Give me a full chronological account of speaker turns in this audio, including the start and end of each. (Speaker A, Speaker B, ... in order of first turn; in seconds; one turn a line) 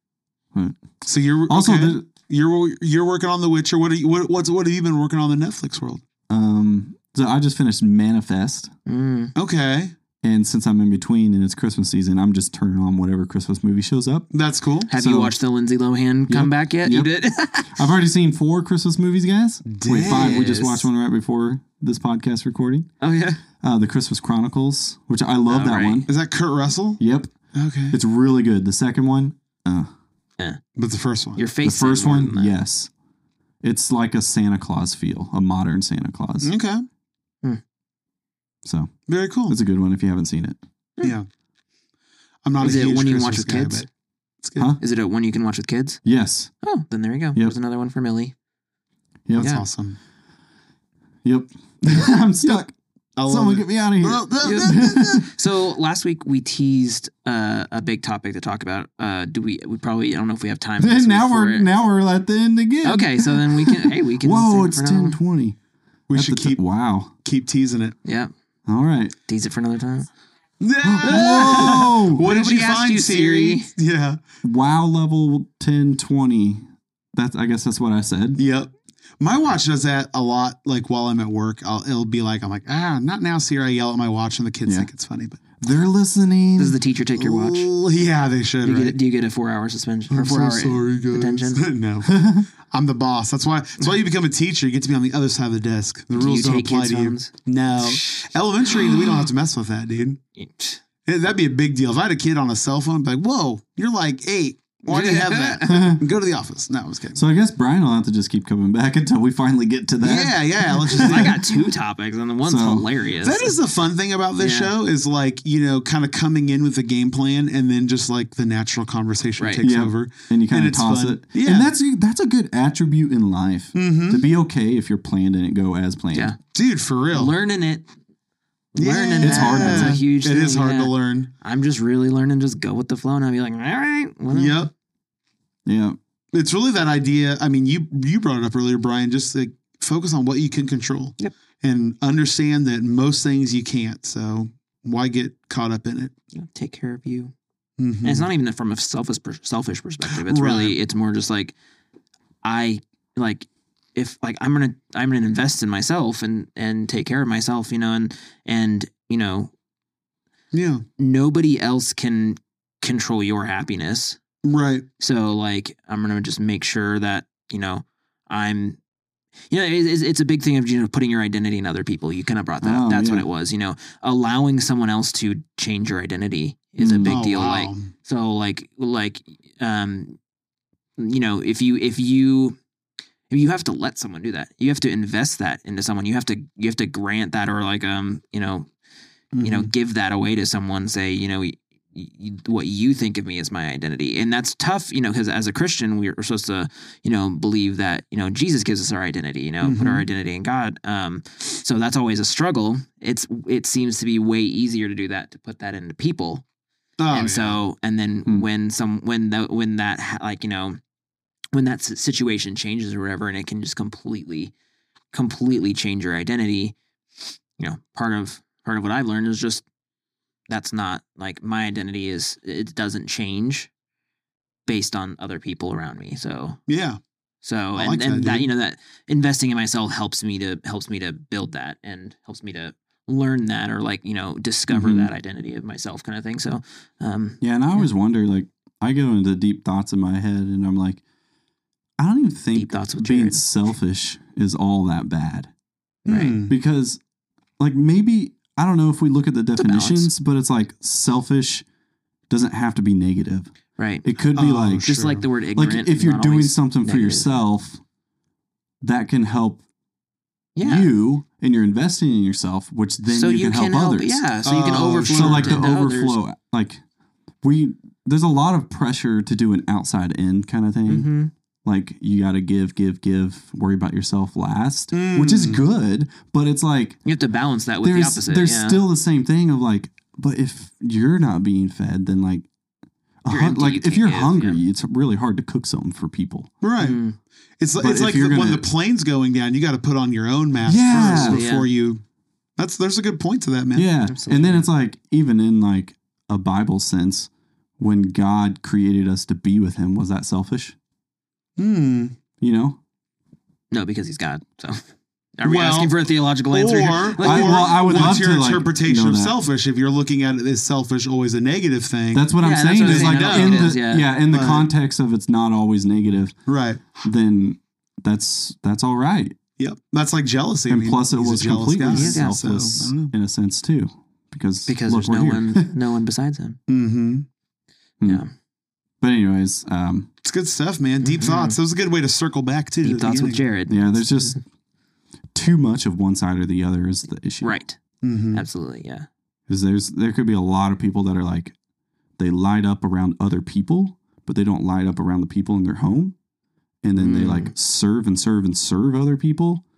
Speaker A: 0.5-0.8
Speaker B: 1.0-6.0
Speaker A: 1.5-2.0
Speaker A: 6.3-8.7
Speaker C: 8.8-9.3
Speaker B: 9.3-9.9
Speaker A: 10.2-14.3
Speaker B: 14.3-14.9
Speaker C: 14.9-17.8
Speaker A: 14.9-15.3
Speaker A: 16.3-17.1
Speaker A: 17.6-22.9
Speaker B: 19.6-20.5
Speaker C: 20.0-20.9
Speaker C: 23.0-23.4
Speaker A: 23.6-26.1
Speaker C: 25.5-26.1
Speaker B: 26.1-27.0
Speaker A: 27.0-27.3
Speaker B: 27.5-28.0
Speaker A: 27.9-29.9
Speaker B: 30.8-31.4
Speaker C: 31.4-32.5
Speaker A: 31.6-32.9
Speaker A: 33.6-36.5
Speaker B: 36.4-36.8
Speaker A: 38.6-40.6
Speaker B: 39.1-39.6
Speaker B: 41.0-41.3
Speaker B: 42.4-43.9
Speaker C: 42.6-43.9
Speaker B: 44.4-44.7
Speaker C: 44.8-46.0
Speaker A: 46.0-46.5
Speaker C: 46.6-48.3
Speaker A: 49.2-49.5
Speaker B: 49.3-50.0
Speaker C: 49.4-49.6
Speaker A: 51.2-52.7
Speaker B: 53.2-55.1
Speaker A: 53.3-55.3
Speaker C: 54.4-61.7
Speaker A: 60.8-65.6
Speaker C: 62.8-65.2
Speaker B: 66.1-66.7
Speaker A: 66.1-67.1
Speaker B: 67.2-68.0
Speaker C: 68.0-68.3
Speaker A: 68.7-69.1
Speaker C: 69.3-70.1
Speaker B: 70.6-74.2
Speaker A: 70.8-72.2
Speaker C: 71.0-73.7
Speaker A: 74.4-78.4
Speaker B: 78.4-85.6
Speaker A: 85.6-86.8
Speaker C: 86.6-87.7
Speaker B: 87.2-89.0
Speaker C: 88.6-91.6
Speaker B: 90.1-100.2
Speaker A: 92.0-92.5
Speaker C: 96.1-98.2
Speaker C: 98.7-99.2
Speaker C: 100.4-100.8
Speaker B: 101.0-107.2
Speaker C: 104.8-105.9
Speaker A: 105.7-106.0
Speaker A: 107.1-111.3
Speaker B: 110.0-111.4
Speaker C: 110.9-113.5
Speaker A: 112.4-112.9
Speaker B: 113.2-121.7
Speaker C: 114.4-114.7
Speaker A: 119.6-126.3
Speaker B: 123.7-124.2
Speaker B: 126.5-127.3
Speaker C: 127.1-127.9
Speaker C: 128.7-134.7
Speaker B: 128.8-131.3
Speaker A: 129.2-130.0
Speaker B: 134.3-134.7
Speaker A: 135.7-136.0
Speaker B: 136.3-146.1
Speaker C: 146.3-147.3
Speaker B: 147.8-148.3
Speaker C: 148.0-151.5
Speaker B: 150.1-150.8
Speaker C: 152.4-159.5
Speaker B: 160.5-160.8
Speaker C: 161.0-164.2
Speaker B: 164.4-164.8
Speaker C: 165.0-168.8
Speaker C: 169.5-180.2
Speaker A: 172.6-173.2
Speaker A: 176.8-177.2
Speaker B: 177.0-177.9
Speaker C: 181.0-182.6
Speaker C: 183.3-188.7
Speaker B: 189.3-189.7
Speaker C: 189.4-206.4
Speaker B: 199.6-200.1
Speaker B: 207.0-207.6
Speaker C: 207.1-210.8
Speaker C: 211.5-214.5
Speaker C: 215.1-216.8
Speaker C: 217.6-219.6
Speaker C: 220.5-223.7
Speaker C: 224.7-226.6
Speaker B: 226.7-227.0
Speaker C: 227.4-237.9
Speaker B: 227.7-228.5
Speaker A: 234.7-235.1
Speaker A: 237.4-241.0
Speaker A: 242.0-245.5
Speaker C: 242.5-243.4
Speaker C: 246.1-246.4
Speaker B: 246.1-246.5
Speaker A: 246.5-247.0
Speaker A: 247.6-251.6
Speaker C: 249.6-250.1
Speaker A: 252.3-253.5
Speaker C: 253.8-254.1
Speaker A: 254.0-254.9
Speaker B: 254.3-255.2
Speaker C: 254.8-257.4
Speaker A: 255.5-257.8
Speaker A: 258.8-259.6
Speaker C: 260.6-260.9
Speaker A: 260.6-264.2
Speaker C: 263.1-266.2
Speaker B: 264.4-265.6
Speaker A: 265.1-266.8
Speaker A: 267.4-271.1
Speaker C: 270.9-271.3
Speaker A: 271.6-277.0
Speaker B: 274.9-275.6
Speaker C: 277.1-278.8
Speaker A: 277.8-282.5
Speaker A: 283.2-286.5
Speaker C: 283.3-284.6
Speaker B: 286.6-287.0
Speaker C: 286.8-287.1
Speaker B: 287.6-292.0
Speaker A: 287.8-288.6
Speaker A: 290.6-291.4
Speaker C: 290.9-291.7
Speaker B: 292.6-293.9
Speaker A: 293.7-300.8
Speaker C: 294.1-294.6
Speaker B: 301.6-302.1
Speaker A: 302.4-302.8
Speaker C: 303.7-304.8
Speaker C: 305.4-308.2
Speaker B: 305.4-313.8
Speaker A: 307.2-309.3
Speaker A: 312.1-316.3
Speaker C: 312.4-314.1
Speaker B: 314.3-314.7
Speaker B: 316.5-317.0
Speaker A: 317.0-319.4
Speaker B: 319.6-323.1
Speaker A: 320.7-325.7
Speaker C: 321.9-322.3
Speaker C: 324.7-326.6
Speaker B: 326.7-327.2
Speaker A: 329.0-330.1
Speaker B: 330.2-333.4
Speaker C: 331.0-331.6
Speaker C: 332.8-334.4
Speaker A: 333.7-334.4
Speaker A: 335.3-337.6
Speaker C: 337.4-337.8
Speaker B: 338.0-338.4
Speaker C: 338.3-339.1
Speaker A: 339.5-341.5
Speaker A: 342.2-346.1
Speaker A: 346.8-349.6
Speaker C: 347.0-347.5